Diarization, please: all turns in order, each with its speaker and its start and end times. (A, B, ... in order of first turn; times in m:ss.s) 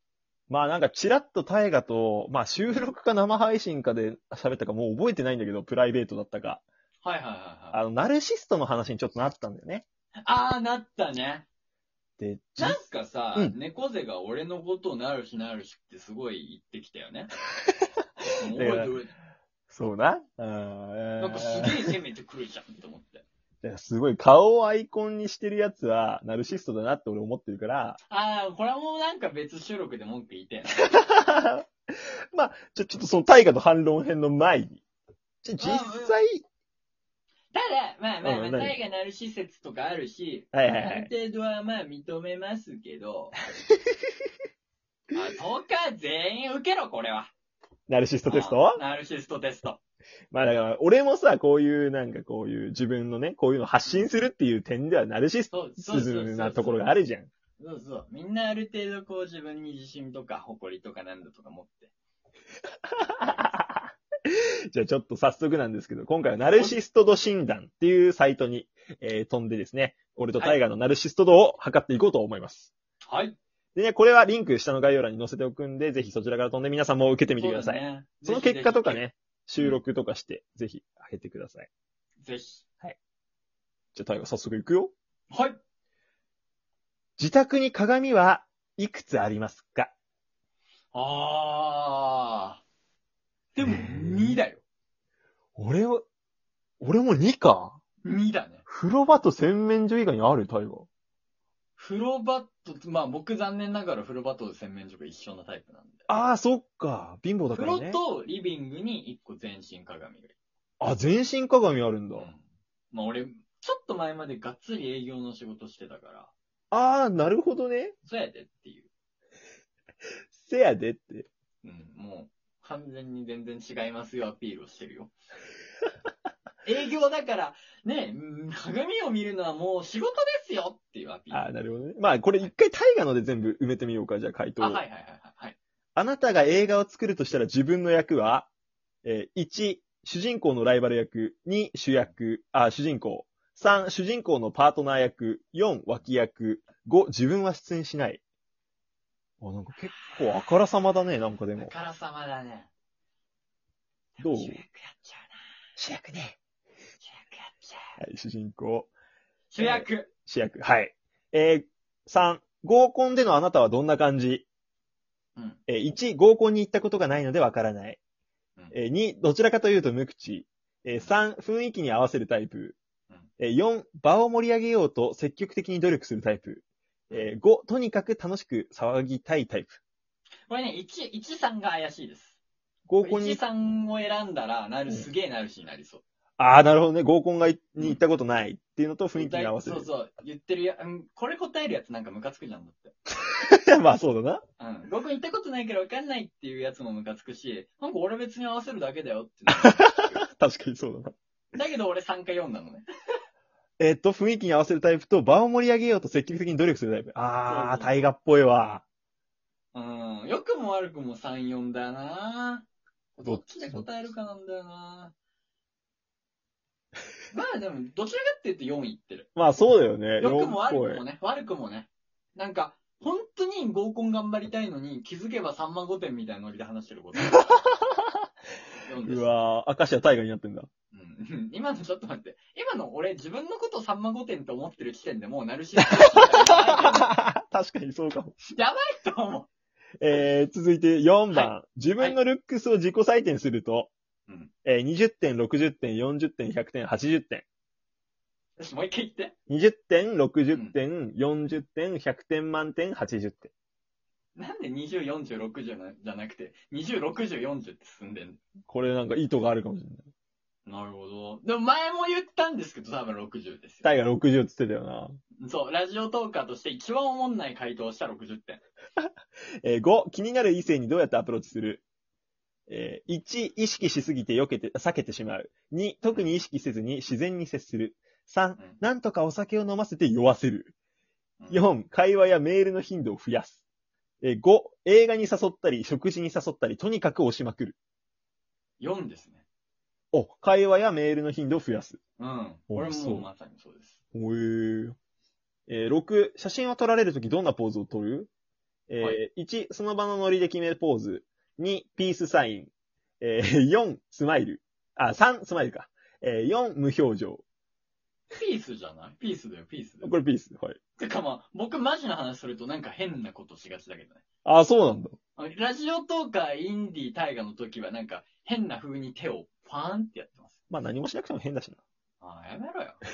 0:00.5-0:06.6 A
0:07.0-0:07.8 B
0:07.7-0:09.8 A
0:10.2-0:11.4 B
0:12.2-0:13.6 A
0:12.6-0:17.3 B
0:18.3-0:19.1 B
0:18.5-0:18.9 A
0:19.7-0:21.9 A
0:21.2-0:23.2 B
0:23.6-0:28.0 A
0:28.1-0:31.0 B
0:30.8-0:31.6 A
0:32.3-0:34.8 A
0:35.4-0:36.4 A
0:35.6-0:36.1 B
0:37.5-0:43.4 B
0:38.2-0:38.8 A
0:40.5-0:41.1 A
0:45.1-0:47.3 B
0:47.9-0:48.8 A
0:48.2-0:49.8 B
0:50.3-0:57.3 A
0:55.5-0:56.9 B
0:57.6-1:01.9 B
1:02.9-1:12.7 A
1:13.1-1:13.4 B
1:13.7-1:21.7 A
1:17.3-1:19.0 B
1:22.2-1:22.6 B
1:23.9-1:24.9 A
1:25.3-1:25.6 B
1:27.2-1:29.9 A
1:30.9-1:32.6 B
1:33.5-1:34.6 B
1:33.6-1:34.4 A
1:35.6-1:36.0 A
1:36.8-1:37.8 A
1:38.0-1:38.6 B
1:38.7-1:40.9 A
1:41.8-1:46.2 B
1:46.1-1:48.0 A
1:47.5-1:50.3 B
1:50.8-1:52.3 A
1:52.1-1:56.3 B
1:56.7-1:57.9 A
1:58.0-1:58.9 B
2:00.4-2:01.3 A
2:01.6-2:05.1 B
2:06.6-2:11.5 B
2:11.3-2:14.8 A
2:14.6-2:15.6 B
2:15.9-2:18.5 A
2:19.0-2:28.2 A
2:29.4-2:31.7 A
2:29.9-2:30.4 B
2:31.6-2:32.7 B
2:34.2-2:35.4 B
2:34.2-2:34.6 A
2:35.8-2:36.4 A
2:37.0-2:38.0 B
2:38.0-2:38.9 A
2:39.5-2:40.1 B
2:39.6-2:44.5 A
2:45.7-2:48.0 A
2:48.7-2:52.8 A
2:53.4-2:59.8 A
3:00.5-3:02.4 B
3:02.9-3:03.4 A
3:03.0-3:06.0 B
3:06.4-3:09.9 A
3:09.2-3:12.9 B
3:13.3-3:14.4 A
3:14.6-3:20.2 B
3:19.5-3:21.1 A
3:21.5-3:22.8 B
3:23.8-3:28.8 A
3:27.4-3:27.9 B
3:29.7-3:32.6 B
3:33.2-3:35.1 B
3:33.2-3:33.8 A
3:37.3-3:39.3 B
3:39.4-3:41.0 A
3:40.2-3:47.7 B
3:47.3-3:47.8 A
3:48.8-3:49.3 B
3:49.0-3:50.7 A
3:50.9-3:57.2 B
3:56.1-3:58.4 A
3:58.4-3:59.5 B
4:00.0-4:03.9 A
4:01.3-4:02.2 B
4:04.6-4:07.4 A
4:08.6-4:09.3 B
4:09.5-4:13.5 A
4:14.4-4:18.4 B
4:18.7-4:20.0 A
4:20.6-4:23.8 B
4:23.8-4:25.2 A
4:25.4-4:28.6 B
4:29.6-4:31.8 A
4:32.7-4:40.7 A
4:41.5-4:43.6 A
4:44.2-4:47.8 A
4:48.8-4:49.4 B
4:50.1-4:52.0 A
4:52.2-4:54.0 B
4:52.7-4:53.3 A
4:54.1-4:55.0 A
4:55.7-4:58.3 A
4:58.9-5:07.4 A
5:08.3-5:10.2 B
5:10.0-5:10.8 A
5:11.0-5:14.2 B
5:14.4-5:15.2 A
5:15.4-5:20.6 B
5:20.7-5:21.8 A
5:22.2-5:23.0 B